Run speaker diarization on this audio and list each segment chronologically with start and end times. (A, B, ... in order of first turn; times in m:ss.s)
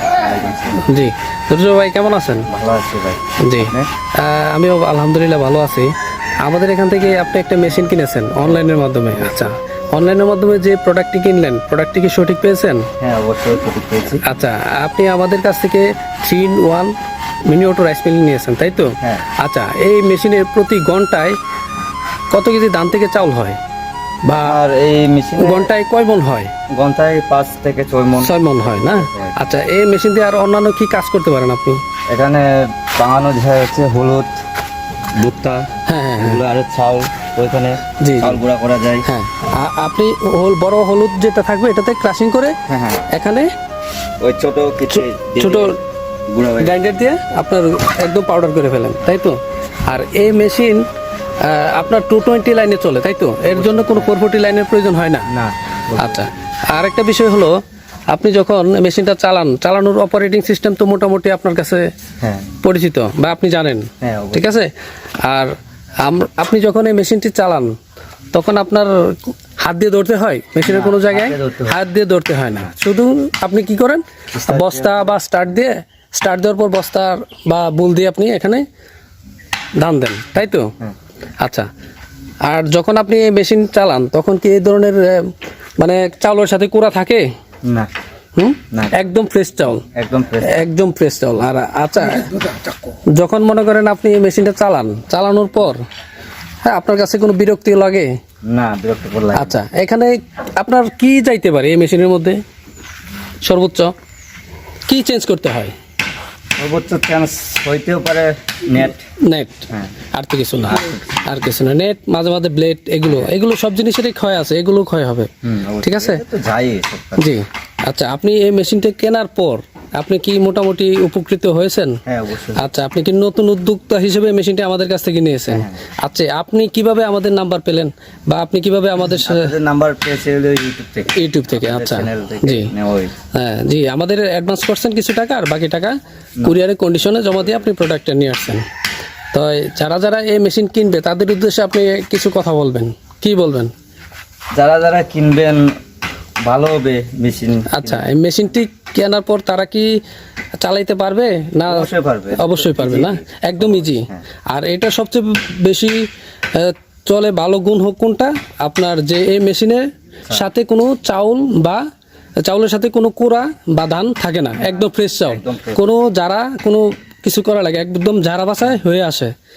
0:00.2-0:00.9 A
0:00.8-0:02.5 B
0:02.5-0:03.9 A
0:03.4-0:12.9 B
0:13.0-0:14.2 A
0:14.2-0:16.9 B
0:17.5-0:21.4 B
0:22.3-0:23.6 B
0:24.2-0:24.6 B
0:24.4-0:25.7 A
0:25.4-0:26.5 B
0:26.7-0:29.4 A
0:28.2-0:31.8 B
0:32.1-0:34.4 A
0:35.1-0:39.1 A
0:35.8-0:36.4 B
0:38.0-0:38.4 B
0:39.0-0:42.6 B
0:42.7-0:43.1 A
0:43.1-0:43.5 B
0:44.2-0:45.8 A
0:45.4-0:45.8 B
0:46.3-0:46.9 A
0:46.6-0:50.8 B
0:51.4-0:55.3 B
0:53.5-0:54.1 A
0:55.3-0:56.2 A
0:56.0-0:57.5 B
0:58.1-1:01.9 B
1:02.2-1:02.5 A
1:02.6-1:04.7 B
1:04.0-1:04.5 A
1:05.2-1:07.7 B
1:08.3-1:18.6 B
1:10.6-1:11.8 A
1:14.3-1:15.1 A
1:19.8-1:20.7 B
1:21.4-1:21.7 B
1:22.4-1:27.2 B
1:27.6-1:27.9 A
1:28.4-1:29.8 B
1:28.7-1:29.0 A
1:29.8-1:30.6 A
1:30.4-1:35.8 B
1:36.6-1:38.1 B
1:38.4-1:39.6 A
1:39.3-1:42.4 B
1:43.4-1:43.9 B
1:44.9-1:45.7 B
1:46.6-1:49.0 A
1:49.2-1:55.3 B
1:55.4-1:57.3 A
1:55.8-1:56.2 B
1:57.2-2:02.0 B
2:02.0-2:02.7 A
2:02.6-2:09.5 B
2:05.5-2:05.8 A
2:09.2-2:13.1 A
2:11.1-2:12.7 B
2:13.3-2:18.6 B
2:19.3-2:23.7 B
2:24.5-2:25.7 A
2:26.4-2:28.0 A
2:27.7-2:30.0 B
2:30.6-2:41.8 B
2:31.6-2:34.2 A
2:42.4-2:49.3 B
2:45.2-2:45.8 A